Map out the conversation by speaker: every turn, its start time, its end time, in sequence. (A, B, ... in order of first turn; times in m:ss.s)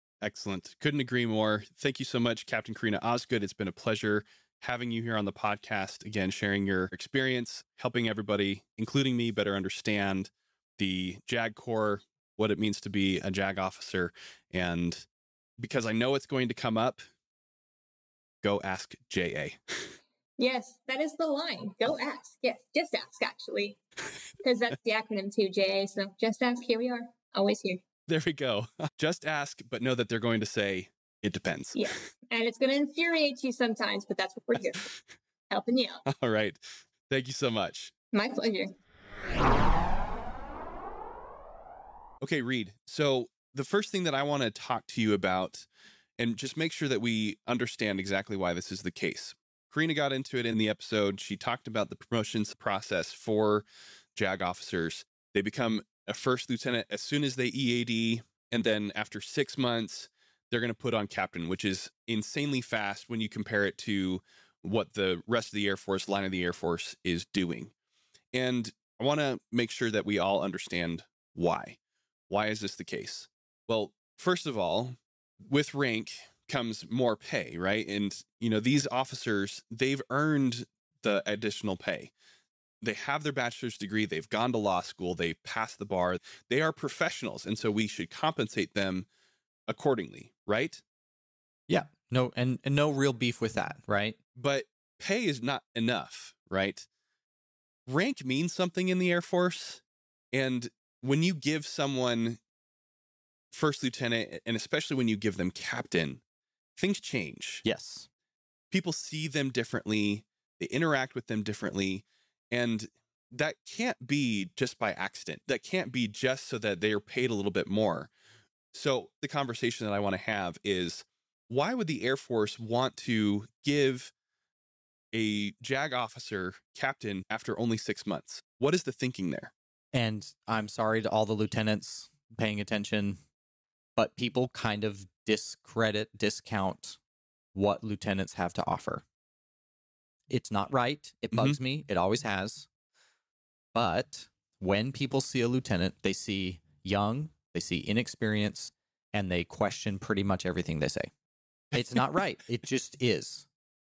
0:00.2-0:15.0 A
0:15.6-0:17.0 A
0:18.4-0:19.9 A
0:20.4-0:23.8 B
0:24.4-0:27.8 B
0:28.1-0:32.0 A
0:31.7-0:34.8 B
0:35.5-0:36.0 B
0:36.1-0:37.9 A
0:38.1-0:38.7 B
0:42.2-0:45.7 A
0:46.2-1:07.7 A
1:08.3-1:11.8 A
1:12.3-1:22.1 A
1:22.8-1:29.1 A
1:29.7-1:30.8 A
1:31.7-1:34.2 C
1:34.4-1:36.9 A
1:37.9-1:39.8 A
1:40.3-1:42.4 A
1:43.5-1:46.2 A
1:46.8-1:47.6 A
1:47.6-1:48.1 C
1:48.7-1:58.1 A
1:58.7-2:04.1 A
2:05.1-2:09.5 A
2:09.9-2:13.2 C
2:14.0-2:17.0 C
2:17.5-2:19.0 C
2:20.3-2:22.7 C
2:23.7-2:31.1 C
2:31.7-2:33.5 C